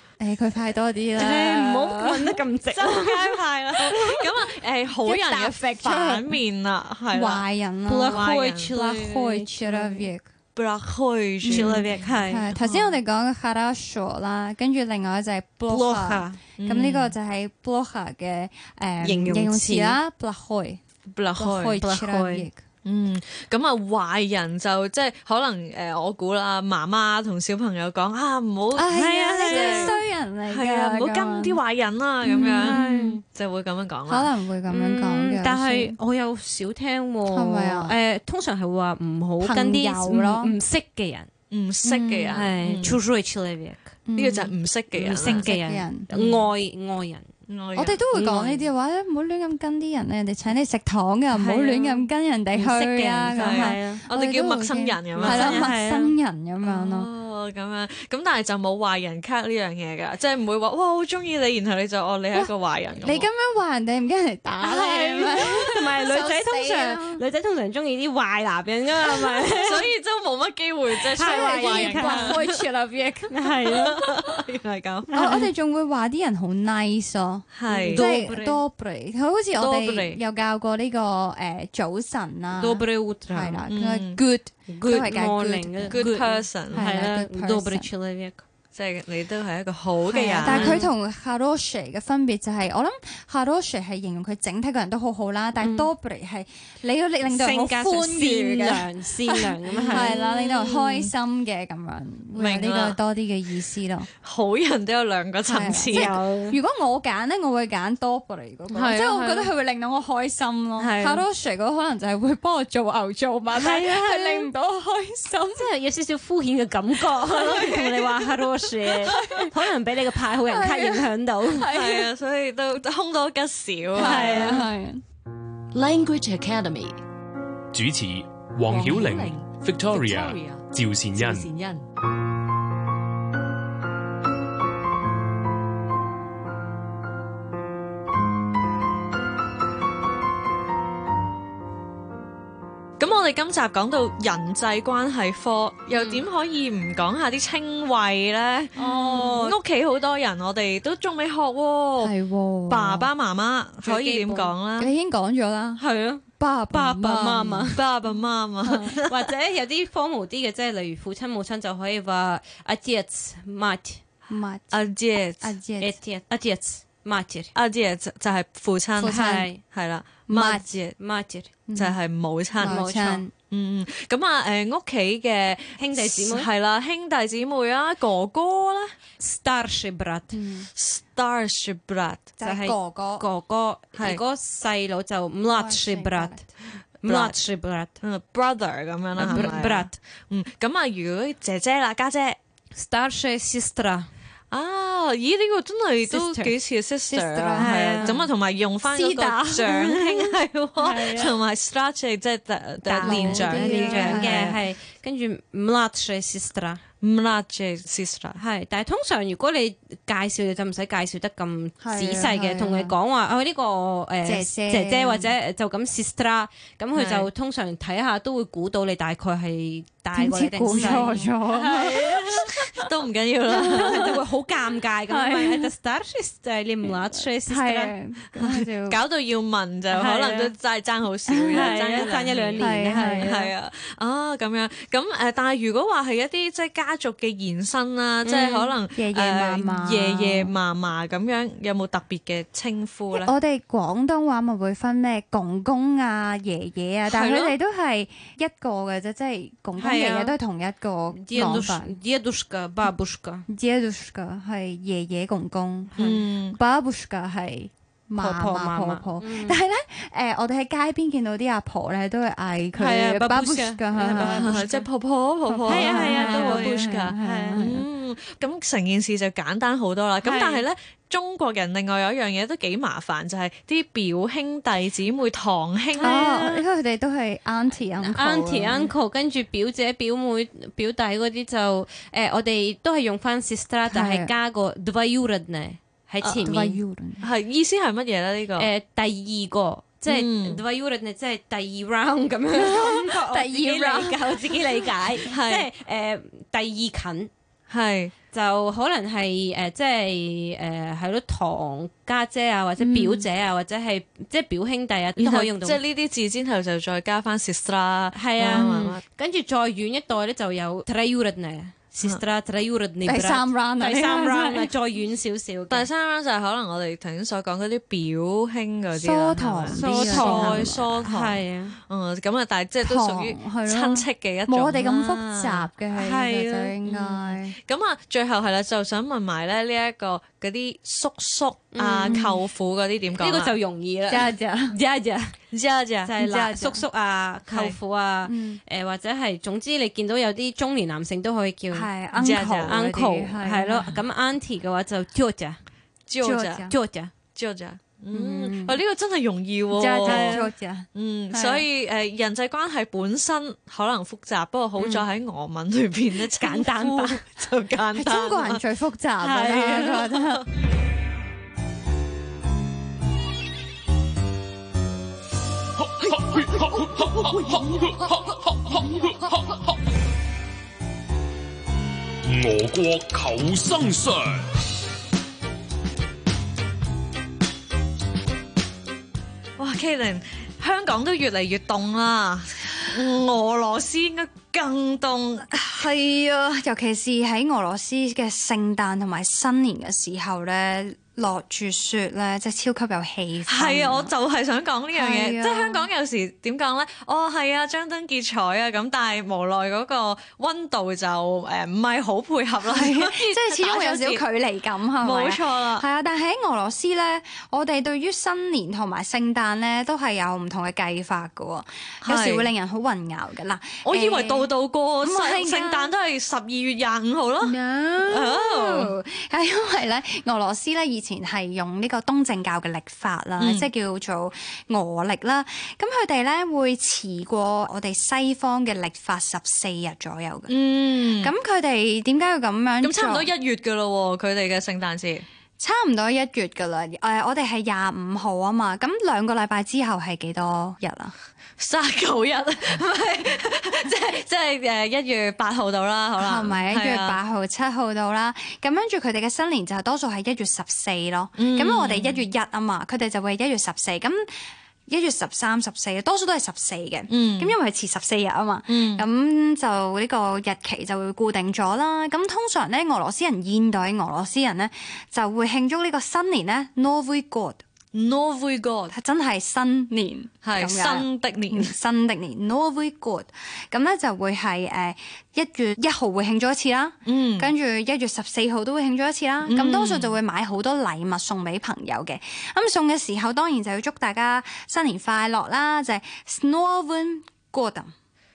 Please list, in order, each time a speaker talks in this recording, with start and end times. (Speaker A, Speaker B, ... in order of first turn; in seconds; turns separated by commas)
Speaker A: 0.2-2.4, Speaker B: 1.2-4.2, Speaker C: 2.7-7.5, Speaker A: 5.0-6.4, Speaker A: 7.1-10.3, Speaker B: 7.9-10.1, Speaker C: 8.1-8.7, Speaker C: 10.6-11.9, Speaker A: 11.4-20.8, Speaker B: 11.5-12.5, Speaker C: 12.6-13.0, Speaker B: 15.7-16.4, Speaker C: 16.6-17.1, Speaker B: 19.0-20.0, Speaker C: 21.1-21.8, Speaker A: 21.4-22.6, Speaker B: 21.8-22.5, Speaker C: 22.9-29.9, Speaker A: 28.7-31.6, Speaker B: 28.9-29.9, Speaker C: 30.5-34.3, Speaker A: 32.2-33.2, Speaker B: 32.3-33.2, Speaker A: 34.1-36.0, Speaker B: 34.7-41.3, Speaker A: 37.3-38.0, Speaker A: 39.4-40.5, Speaker C: 41.5-43.0, Speaker A: 41.9-42.5, Speaker B: 42.3-44.0, Speaker A: 44.1-44.5, Speaker C: 44.2-45.5, Speaker B: 44.9-47.3, Speaker A: 45.2-46.1, Speaker C: 46.1-46.5, Speaker C: 47.5-48.0, Speaker A: 47.8-57.1, Speaker B: 48.1-48.6, Speaker B: 51.4-51.7, Speaker C: 51.5-51.9, Speaker B: 52.5-54.0, Speaker C: 53.4-55.7, Speaker B: 55.2-56.1, Speaker C: 56.6-63.3, Speaker A: 63.0-67.2, Speaker B: 64.6-69.9, Speaker C: 69.5-72.4, Speaker A: 71.2-73.5, Speaker B: 71.2-72.7, Speaker B: 73.3-74.0, Speaker C: 73.7-75.1, Speaker B: 75.1-75.5, Speaker A: 75.1-86.1, Speaker C: 77.5-78.0, Speaker B: 77.7-78.6, Speaker C: 79.6-80.2, Speaker B: 82.6-83.7, Speaker C: 83.7-84.2, Speaker B: 84.7-88.4, Speaker C: 85.9-86.9, Speaker A: 86.7-87.9, Speaker C: 88.7-90.8, Speaker A: 90.1-104.1, Speaker B: 90.4-90.9, Speaker B: 95.6-95.9, Speaker B: 97.3-100.1, Speaker C: 99.8-101.1, Speaker C: 102.4-103.0, Speaker C: 104.2-106.1, Speaker A: 105.5-115.7, Speaker B: 105.9-106.6, Speaker B: 108.7-109.5, Speaker B: 110.8-111.2, Speaker B: 113.5-114.5, Speaker B: 115.5-121.7, Speaker C: 117.3-118.0, Speaker A: 119.0-119.5, Speaker A: 120.5-122.1, Speaker C: 121.7-124.6, Speaker A: 123.9-125.0, Speaker B: 124.0-124.7, Speaker D: 125.7-127.0, Speaker E: 127.7-131.5, Speaker D: 128.7-131.8, Speaker C: 143.0-152.2, Speaker B: 145.9-146.2, Speaker B: 148.8-149.6, Speaker A: 152.0-153.1, Speaker C: 152.7-154.9, Speaker B: 153.8-154.5, Speaker A: 154.8-157.7, Speaker B: 155.8-157.8, Speaker C: 157.7-159.3, Speaker B: 159.0-164.0, Speaker A: 164.3-164.8, Speaker C: 164.7-165.5, Speaker A: 165.4-166.0, Speaker B: 165.8-167.5, Speaker C: 167.6-171.0, Speaker A: 169.0-169.5, Speaker B: 169.0-169.6, Speaker A: 170.3-170.7, Speaker B: 171.0-171.5, Speaker A: 171.7-172.0, Speaker C: 171.8-172.8, Speaker A: 172.6-173.3, Speaker B: 172.6-173.2, Speaker C: 173.5-178.9, Speaker B: 175.8-176.5, Speaker B: 179.2-180.4, Speaker A: 180.3-180.7, Speaker C: 180.8-182.3, Speaker A: 182.4-183.2, Speaker B: 182.4-186.5, Speaker A: 185.5-186.5, Speaker B: 187.0-187.9, Speaker C: 187.1-187.4, Speaker C: 188.0-192.4, Speaker B: 189.2-189.9, Speaker A: 189.2-189.7, Speaker B: 192.7-194.1, Speaker C: 194.5-204.6, Speaker B: 196.1-196.5, Speaker A: 197.1-198.3, Speaker B: 197.6-198.2, Speaker A: 198.9-199.5, Speaker B: 199.0-201.3, Speaker B: 202.9-206.8, Speaker A: 202.9-204.6, Speaker C: 207.0-208.4, Speaker B: 208.4-222.6, Speaker A: 211.8-213.0, Speaker A: 214.2-215.3, Speaker C: 216.9-217.3, Speaker A: 220.1-222.7, Speaker C: 222.7-224.1, Speaker A: 223.5-224.2, Speaker B: 223.7-227.9, Speaker A: 225.1-225.7, Speaker A: 226.8-229.0, Speaker C: 228.4-243.3, Speaker B: 229.9-230.5, Speaker A: 231.3-233.4, Speaker B: 231.5-233.5, Speaker B: 238.3-238.7, Speaker A: 238.9-240.5, Speaker A: 243.1-251.9, Speaker C: 247.1-247.5, Speaker B: 249.8-250.4, Speaker B: 251.1-253.4, Speaker A: 253.5-256.0, Speaker C: 256.0-256.6, Speaker A: 256.5-264.9, Speaker B: 258.2-259.6, Speaker B: 262.8-264.6, Speaker C: 264.2-276.4, Speaker A: 265.5-267.9, Speaker B: 265.7-267.6, Speaker B: 270.2-270.6, Speaker B: 276.0-276.6, Speaker A: 276.0-278.9, Speaker B: 278.1-286.8, Speaker A: 283.9-284.3, Speaker A: 286.4-287.2, Speaker C: 287.2-288.7, Speaker B: 288.6-297.3, Speaker C: 290.1-290.6, Speaker A: 292.5-294.9, Speaker C: 295.3-295.7, Speaker C: 297.7-298.1, Speaker B: 298.3-305.8, Speaker A: 302.8-303.3, Speaker C: 305.2-309.0, Speaker B: 308.1-315.9, Speaker A: 313.1-314.7, Speaker C: 315.7-325.7, Speaker A: 319.0-320.9, Speaker B: 319.7-321.8, Speaker A: 322.8-327.6, Speaker B: 326.0-326.7, Speaker C: 326.9-333.5, Speaker B: 331.7-332.2, Speaker A: 332.0-332.4, Speaker B: 333.2-335.4, Speaker A: 334.1-334.8, Speaker C: 335.5-336.3, Speaker B: 336.1-341.9, Speaker A: 336.2-336.8, Speaker C: 337.5-337.8, Speaker A: 338.3-338.6, Speaker A: 341.7-344.0, Speaker C: 342.2-342.7, Speaker B: 342.7-345.6, Speaker C: 346.1-346.7, Speaker A: 346.2-346.8, Speaker B: 346.7-347.1, Speaker C: 347.3-350.4, Speaker A: 348.1-348.8, Speaker A: 349.7-351.7, Speaker B: 350.0-350.5, Speaker C: 350.9-358.6, Speaker B: 354.8-355.1, Speaker B: 356.4-357.2, Speaker A: 357.9-360.5, Speaker B: 359.2-360.0, Speaker E: 366.0-369.6, Speaker A: 367.4-368.1, Speaker E: 372.2-374.4, Speaker C: 379.6-385.6, Speaker A: 385.5-394.1, Speaker C: 393.5-404.2, Speaker A: 394.9-395.9, Speaker A: 402.6-414.5, Speaker C: 405.0-405.9, Speaker C: 412.0-412.5, Speaker C: 413.8-418.9, Speaker A: 415.0-415.9, Speaker A: 417.4-430.5, Speaker C: 423.4-423.7, Speaker C: 430.5-431.3, Speaker A: 431.2-433.3, Speaker C: 432.8-435.2, Speaker A: 435.6-441.1, Speaker C: 441.6-447.2, Speaker A: 446.2-454.3, Speaker C: 451.4-452.2, Speaker A: 454.9-467.6, Speaker C: 457.1-457.6, Speaker C: 458.7-459.1, Speaker C: 467.9-468.9, Speaker A: 468.9-487.9, Speaker C: 470.4-471.7, Speaker C: 477.1-477.5, Speaker C: 479.4-480.2